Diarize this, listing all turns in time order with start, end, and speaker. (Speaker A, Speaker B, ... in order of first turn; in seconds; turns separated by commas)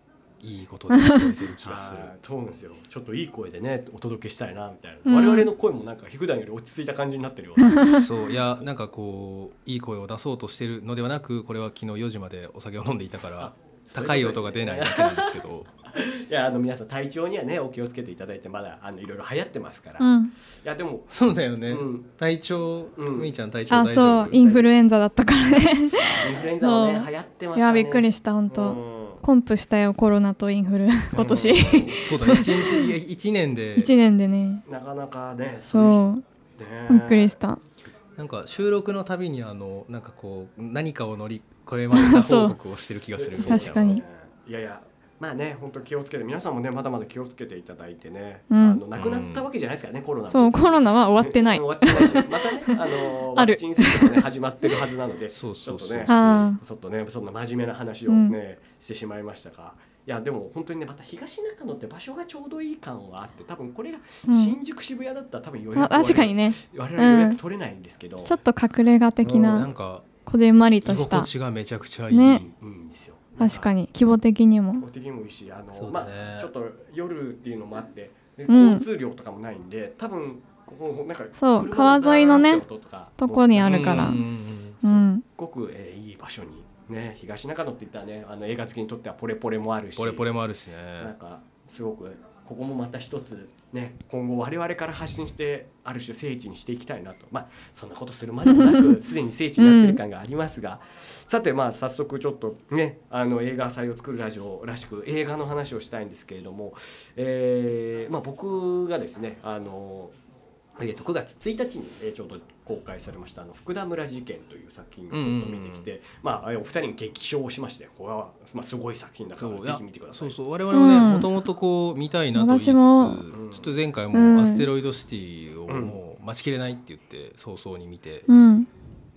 Speaker A: 0.4-2.1, Speaker B: 0.9-1.3, Speaker C: 1.6-8.0, Speaker B: 5.1-5.5, Speaker B: 7.7-8.0, Speaker A: 7.8-15.7, Speaker C: 13.4-21.1, Speaker B: 20.0-20.3, Speaker A: 21.1-24.6, Speaker C: 21.7-22.1, Speaker C: 23.0-23.3, Speaker B: 23.7-33.0, Speaker C: 26.1-29.2, Speaker C: 31.1-32.0, Speaker A: 31.5-33.9, Speaker B: 33.8-34.6, Speaker C: 34.6-36.0, Speaker B: 35.7-36.2, Speaker C: 36.6-37.4, Speaker B: 36.9-37.6, Speaker A: 38.2-44.0, Speaker B: 41.9-42.6, Speaker C: 43.2-68.4, Speaker B: 43.4-44.0, Speaker B: 48.5-48.8, Speaker A: 49.0-49.5, Speaker B: 50.3-54.2, Speaker A: 55.3-56.5, Speaker B: 56.1-56.6, Speaker B: 58.1-58.4, Speaker B: 64.3-64.6, Speaker B: 65.7-67.4, Speaker B: 68.3-69.7, Speaker C: 69.2-69.7, Speaker A: 69.3-70.1, Speaker B: 70.3-71.3, Speaker A: 70.8-72.5, Speaker B: 72.1-72.5, Speaker C: 72.4-73.7, Speaker B: 73.4-74.8, Speaker C: 74.8-84.2, Speaker A: 75.7-76.5, Speaker B: 78.5-78.8, Speaker B: 81.4-82.6, Speaker B: 83.2-84.2, Speaker A: 83.6-85.0, Speaker B: 84.8-85.2, Speaker C: 85.3-90.3, Speaker A: 90.0-91.1, Speaker C: 91.0-110.2, Speaker B: 98.5-99.0, Speaker B: 99.6-100.0, Speaker C: 110.8-120.4, Speaker A: 115.1-115.9, Speaker A: 119.4-128.3, Speaker B: 120.7-121.3, Speaker B: 122.3-123.3, Speaker C: 123.3-123.7, Speaker B: 124.1-124.7, Speaker C: 125.7-126.0, Speaker B: 128.3-128.7